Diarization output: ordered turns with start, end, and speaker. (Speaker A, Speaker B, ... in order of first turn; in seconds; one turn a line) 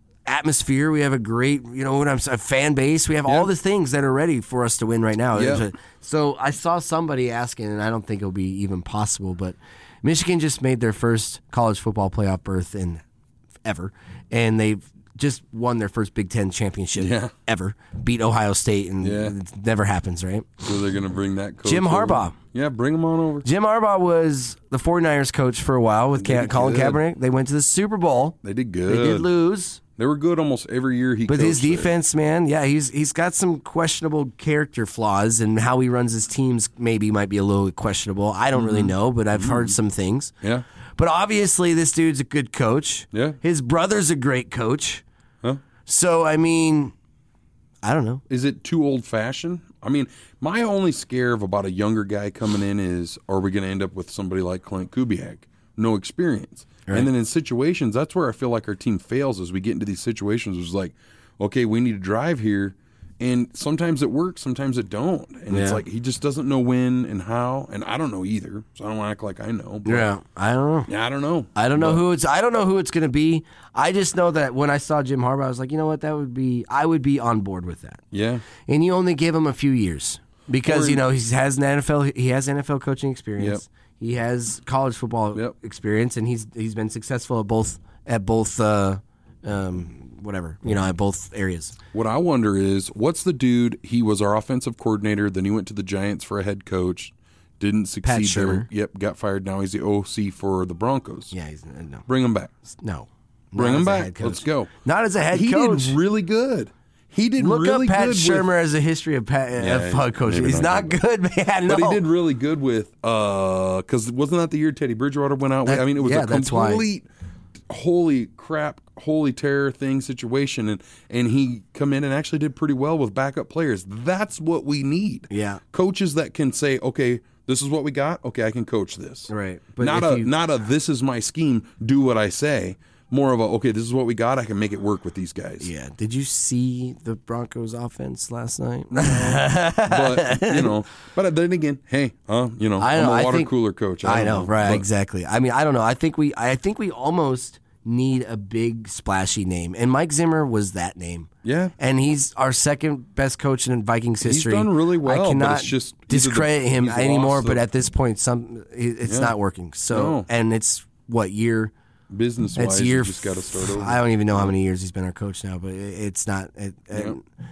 Speaker A: 0.3-13.0
Speaker B: 5.3-5.6
Speaker A: 13.7-20.6
Speaker B: 17.0-17.3
Speaker B: 19.0-19.4
Speaker B: 20.6-23.5
Speaker A: 21.6-22.4
Speaker A: 23.4-29.8
Speaker B: 26.2-27.0
Speaker B: 28.4-29.3
Speaker B: 30.0-31.9
Speaker A: 31.3-40.3
Speaker B: 38.5-39.8
Speaker A: 41.0-45.0
Speaker B: 43.1-43.4
Speaker A: 45.9-46.9
Speaker A: 47.8-48.2
Speaker B: 48.3-70.1
Speaker A: 65.5-65.8
Speaker A: 69.8-70.9
Speaker B: 70.9-72.0
Speaker A: 71.5-78.0
Speaker B: 78.1-78.5
Speaker A: 78.6-91.8
Speaker B: 80.6-81.0
Speaker B: 83.4-83.6
Speaker B: 91.9-101.3
Speaker A: 98.0-98.7
Speaker A: 101.3-102.1
Speaker B: 102.1-102.5
Speaker A: 102.7-106.0
Speaker B: 103.6-104.7
Speaker B: 105.3-108.5
Speaker A: 107.4-112.0
Speaker B: 109.6-111.0
Speaker B: 111.7-117.1
Speaker A: 115.7-116.8
Speaker B: 117.7-135.7
Speaker A: 125.3-125.6
Speaker A: 129.3-130.3
Speaker A: 135.6-140.7
Speaker B: 138.9-144.8
Speaker A: 142.8-143.5
Speaker A: 144.0-161.7
Speaker B: 151.4-151.8
Speaker B: 154.2-157.6
Speaker B: 159.1-159.3
Speaker B: 159.9-160.3
Speaker B: 162.1-164.5
Speaker A: 162.6-167.2